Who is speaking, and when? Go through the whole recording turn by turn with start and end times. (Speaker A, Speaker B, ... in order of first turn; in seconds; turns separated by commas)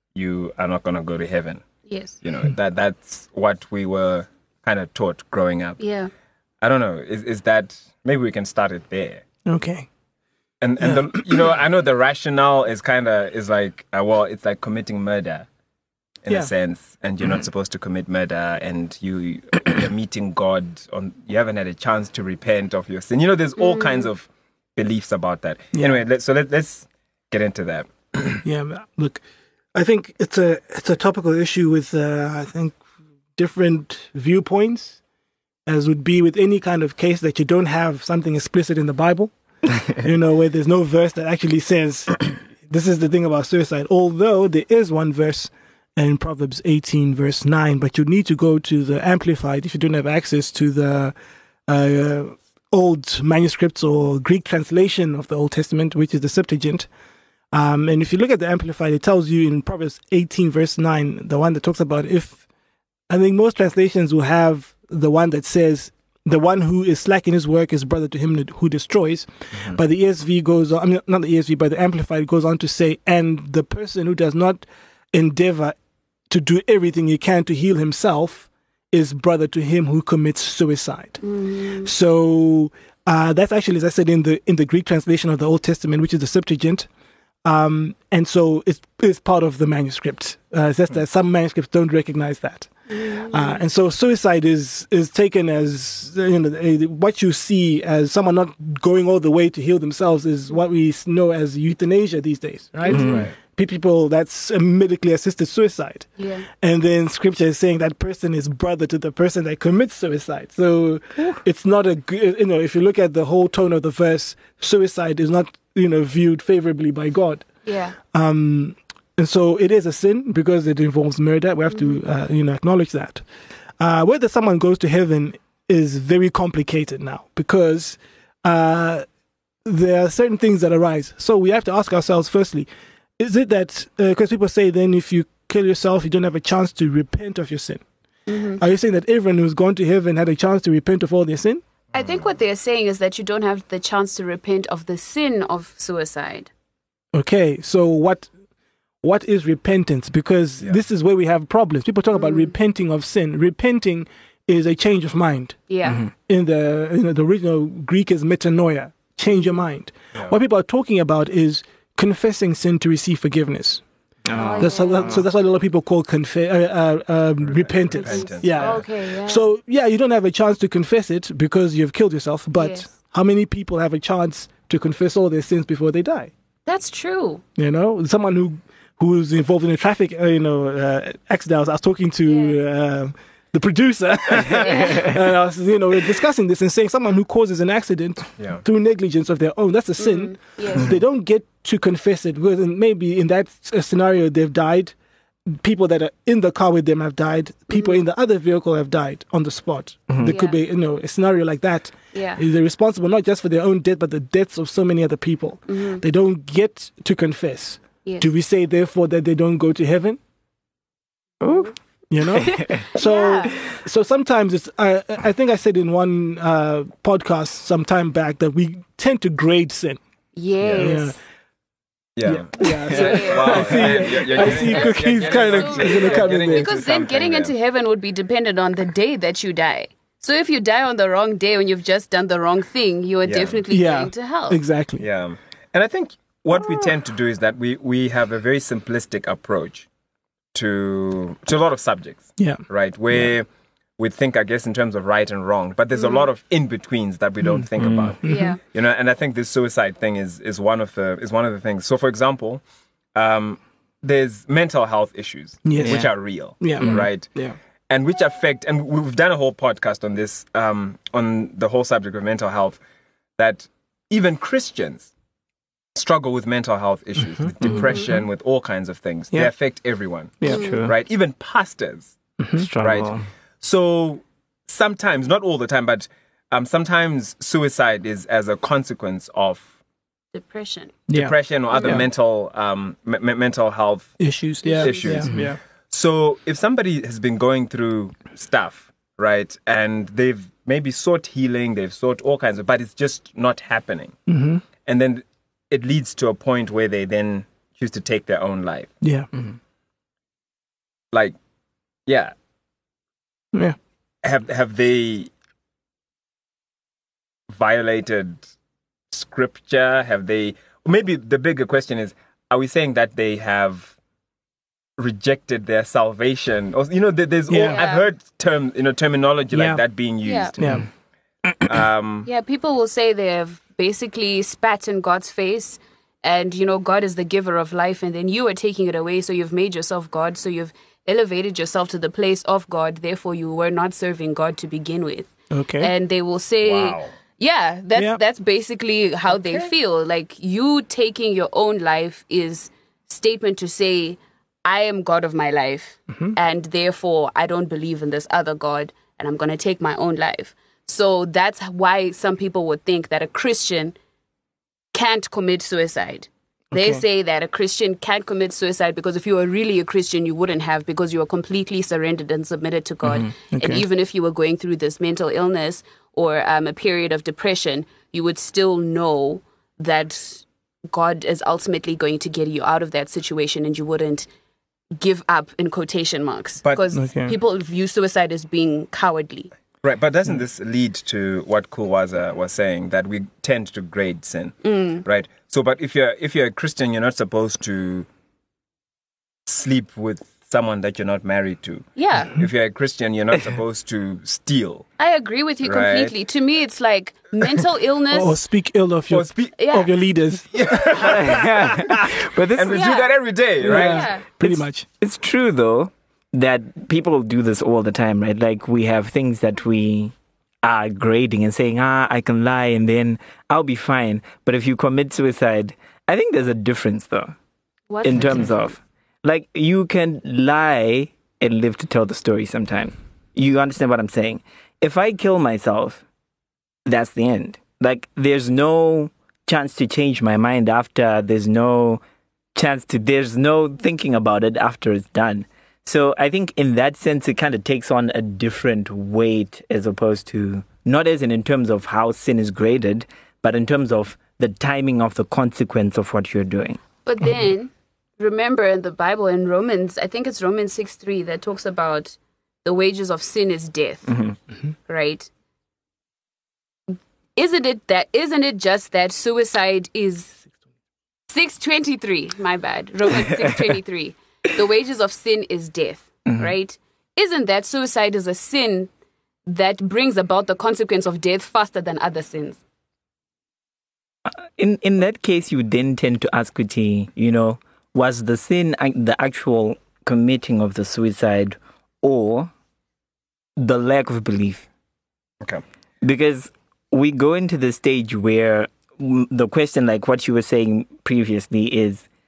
Speaker A: 0.1-1.6, Speaker B: 1.9-2.2, Speaker A: 2.2-5.8, Speaker B: 5.8-6.1, Speaker A: 6.6-9.2, Speaker C: 9.4-9.9, Speaker A: 10.6-15.4, Speaker C: 10.8-11.5, Speaker A: 16.2-28.4, Speaker B: 23.6-24.1, Speaker C: 25.7-26.0, Speaker C: 28.4-29.2, Speaker C: 29.7-32.8, Speaker C: 33.4-35.0, Speaker C: 35.6-51.1, Speaker C: 51.7-56.9, Speaker C: 57.5-62.4, Speaker C: 63.1-75.8, Speaker C: 76.3-81.2, Speaker B: 81.2-81.9, Speaker C: 81.8-86.9, Speaker C: 87.4-117.4, Speaker B: 92.9-93.6, Speaker B: 102.8-103.2, Speaker D: 102.9-103.3, Speaker A: 103.0-103.3, Speaker B: 106.2-106.5, Speaker B: 117.7-118.0, Speaker C: 118.0-123.2, Speaker B: 121.7-122.0, Speaker C: 123.8-129.0, Speaker C: 129.6-137.8, Speaker B: 138.3-138.6, Speaker C: 138.6-141.6, Speaker B: 141.9-146.5, Speaker A: 141.9-142.2, Speaker C: 147.1-148.3, Speaker C: 149.0-155.6, Speaker B: 152.2-152.5, Speaker B: 155.7-156.0, Speaker D: 155.8-156.1, Speaker C: 156.2-163.8, Speaker D: 164.3-165.2, Speaker B: 164.3-165.2, Speaker C: 164.6-176.3, Speaker A: 167.4-168.8, Speaker B: 167.9-169.5, Speaker B: 172.5-172.9, Speaker B: 176.7-177.4, Speaker C: 177.6-194.9, Speaker B: 182.2-182.6, Speaker B: 184.4-185.1, Speaker B: 190.0-190.9, Speaker C: 195.5-210.2, Speaker D: 200.1-200.3, Speaker B: 200.2-200.6, Speaker B: 202.1-202.4, Speaker B: 205.7-206.0, Speaker D: 211.4-211.7, Speaker B: 211.5-211.7, Speaker C: 212.1-220.0, Speaker D: 212.4-212.8, Speaker B: 212.6-213.5, Speaker B: 220.3-221.2, Speaker A: 220.6-220.9, Speaker C: 220.8-221.2, Speaker A: 222.2-227.5, Speaker C: 222.2-226.8, Speaker B: 222.9-234.6, Speaker A: 233.2-233.6, Speaker C: 233.7-235.1, Speaker A: 235.0-239.9, Speaker A: 240.5-243.5, Speaker C: 242.4-243.3, Speaker A: 244.0-252.6, Speaker B: 246.0-246.2, Speaker D: 247.8-248.1, Speaker C: 248.2-248.5, Speaker B: 248.2-248.6, Speaker A: 253.1-257.3, Speaker C: 255.6-257.6, Speaker D: 255.8-256.1, Speaker D: 256.8-257.1, Speaker A: 257.9-262.8, Speaker A: 263.4-265.1, Speaker A: 265.9-272.1, Speaker C: 267.4-268.1, Speaker D: 270.4-270.9, Speaker B: 270.4-270.8, Speaker C: 272.4-272.7, Speaker D: 272.6-273.2, Speaker A: 272.8-279.7, Speaker B: 280.3-280.9, Speaker C: 281.1-282.1, Speaker A: 281.1-284.2, Speaker B: 281.7-282.0, Speaker C: 284.2-285.6, Speaker B: 284.6-285.1, Speaker A: 284.8-294.2, Speaker C: 294.3-294.6, Speaker A: 294.8-298.9, Speaker C: 299.0-299.3, Speaker A: 302.1-302.3, Speaker A: 304.2-305.3, Speaker A: 307.5-308.5, Speaker A: 309.1-313.9, Speaker A: 315.0-320.8, Speaker C: 317.5-317.8, Speaker B: 317.7-318.1, Speaker C: 319.5-319.8, Speaker B: 320.2-320.5, Speaker C: 320.6-320.9, Speaker A: 321.6-322.3, Speaker B: 322.2-353.9, Speaker C: 335.5-335.9, Speaker A: 336.6-337.1, Speaker C: 337.9-338.2, Speaker A: 339.4-339.7, Speaker C: 346.1-346.4, Speaker B: 354.9-374.3, Speaker C: 356.7-357.0, Speaker D: 363.0-363.3, Speaker C: 363.5-363.8, Speaker B: 374.9-379.5, Speaker C: 376.9-377.4, Speaker A: 379.8-388.1, Speaker B: 384.6-385.0, Speaker A: 389.4-394.9, Speaker B: 391.9-392.4, Speaker B: 395.0-398.4, Speaker A: 395.6-396.1, Speaker C: 398.1-402.2, Speaker A: 399.1-399.5, Speaker B: 399.6-399.9, Speaker A: 400.5-401.4, Speaker D: 401.0-403.0, Speaker A: 402.5-404.1, Speaker B: 402.7-403.1, Speaker C: 403.6-404.9, Speaker D: 403.7-417.3, Speaker B: 403.7-404.2, Speaker B: 417.9-418.7, Speaker D: 418.0-426.0, Speaker D: 426.8-432.0, Speaker D: 432.5-446.8, Speaker B: 447.1-454.1, Speaker D: 454.1-454.4, Speaker B: 454.9-455.3, Speaker B: 457.4-460.4, Speaker B: 461.3-468.9, Speaker B: 469.4-472.6, Speaker D: 474.3-482.5, Speaker D: 483.6-484.7, Speaker D: 486.0-492.1